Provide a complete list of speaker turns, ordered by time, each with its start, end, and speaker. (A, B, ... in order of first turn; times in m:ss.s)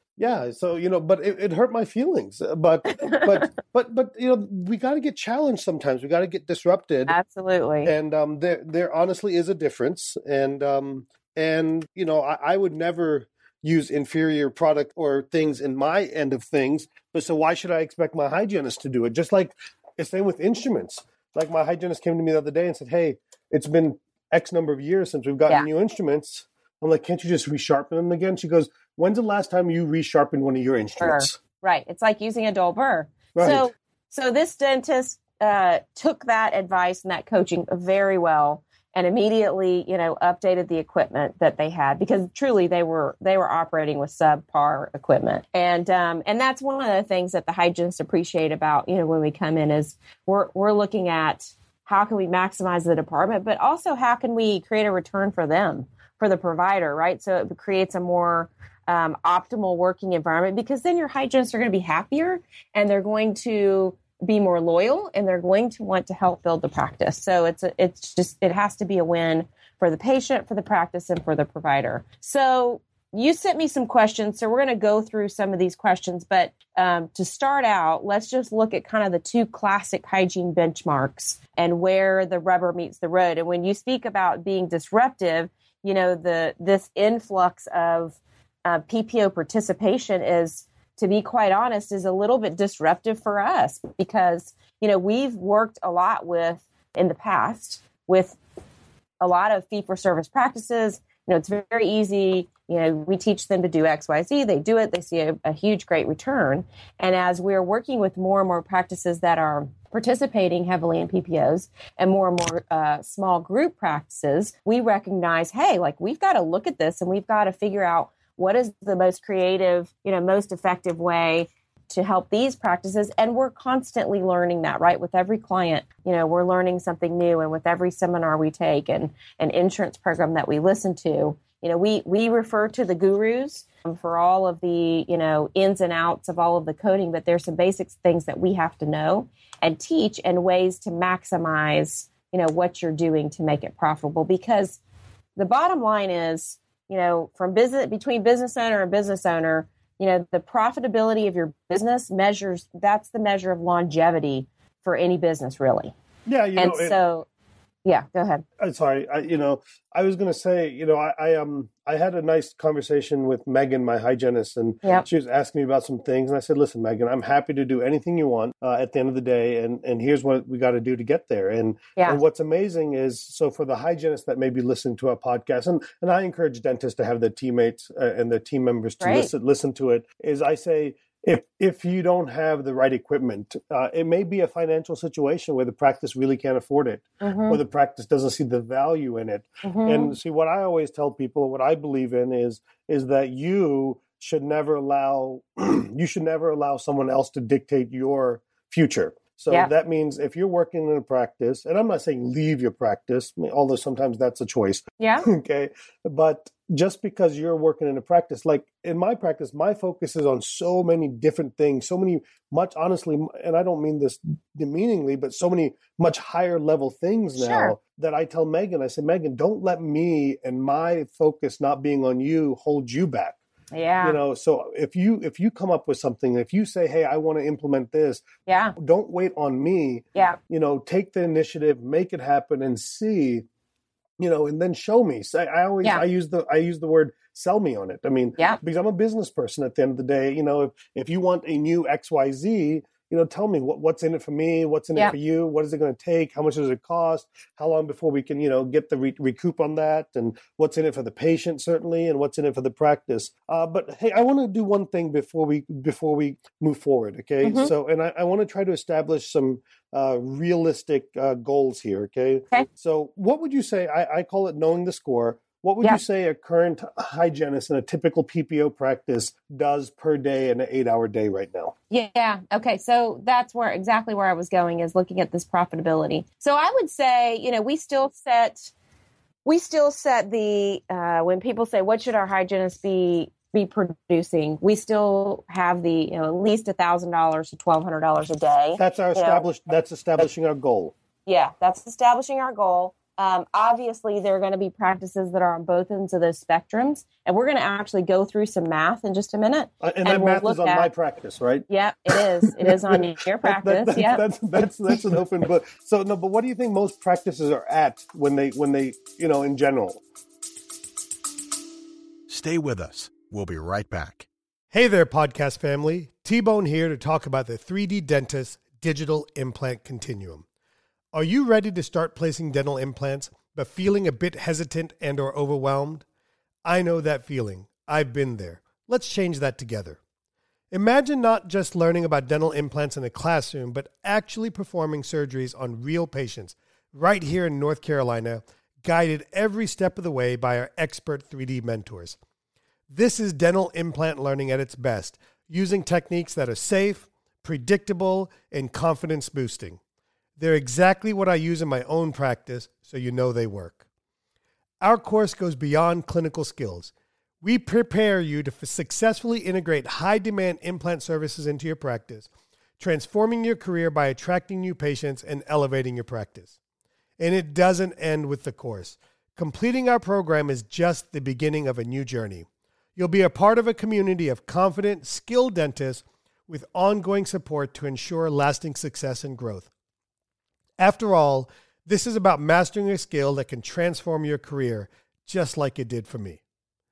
0:00.2-0:07.2 A
0:03.0-0:03.3 B
0:07.1-0:07.9 B
0:07.8-0:31.4 A
0:31.0-1:38.4 B
0:33.4-0:33.7 A
1:39.2-2:24.8 B
2:25.4-2:35.9 B
2:36.3-2:37.0 A
2:36.6-2:37.3 B
2:37.8-2:38.4 B
2:38.6-3:43.4 A
2:59.0-2:59.3 B
3:07.2-3:07.6 B
3:09.6-3:10.2 B
3:25.0-3:25.3 B
3:37.4-3:37.8 B
3:43.7-3:44.2 B
3:44.0-3:48.2 A
3:48.5-3:48.8 B
3:48.8-3:53.4 A
3:54.2-4:31.7 A
4:17.4-4:17.7 B
4:31.9-4:38.7 B
4:39.4-4:49.4 B
4:48.8-4:51.0 A
4:51.3-5:00.9 B
4:59.8-5:10.0 A
5:01.7-5:04.2 B
5:12.3-5:14.3 C
5:14.7-5:20.4 A
5:21.1-5:26.0 A
5:26.6-5:30.0 A
5:30.7-5:42.2 A
5:42.9-5:49.8 A
5:50.4-5:53.8 A
5:54.8-6:06.5 A
6:07.2-6:19.7 A
6:20.8-6:26.4 A